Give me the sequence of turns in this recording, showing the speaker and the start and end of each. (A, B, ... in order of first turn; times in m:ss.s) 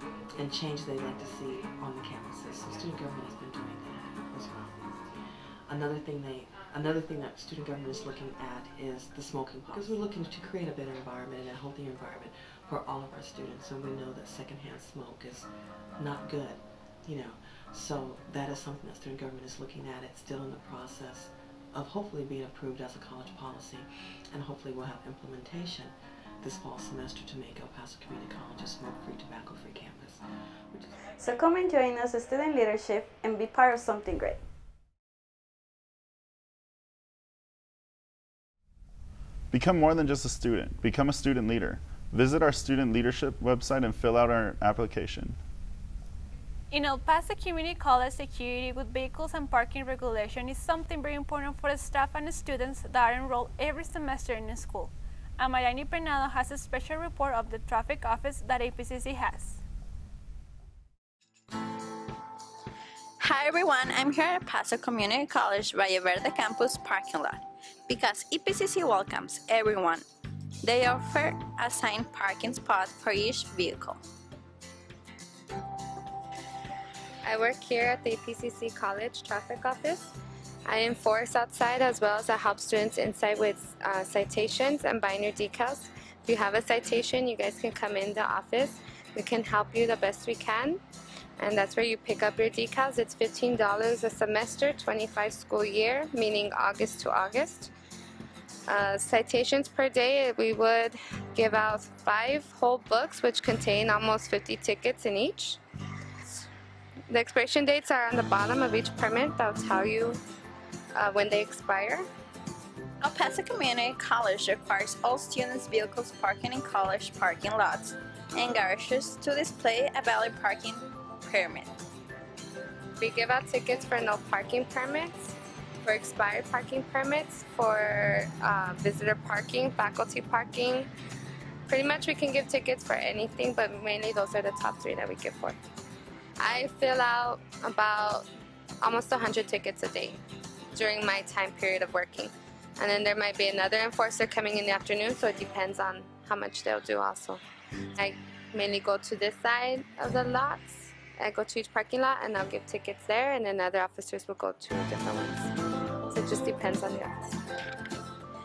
0:00.3-0:31.0 A
0:31.2-0:34.4 B
0:39.5-0:45.4 C
0:46.7-0:59.6 D
1:03.2-1:10.0 E
1:10.6-1:14.0 E
1:17.2-1:20.1 F
1:20.7-1:30.8 F
1:31.4-1:37.7 F
1:38.7-1:45.6 F
1:47.1-1:50.2 F
1:50.9-1:52.1 F
1:53.0-2:01.7 E
2:03.0-2:10.9 F
2:11.7-2:15.6 F
2:16.4-2:18.3 F
2:18.8-2:20.2 F
2:20.7-2:27.4 F
2:28.0-2:35.5 F
2:36.1-2:37.4 F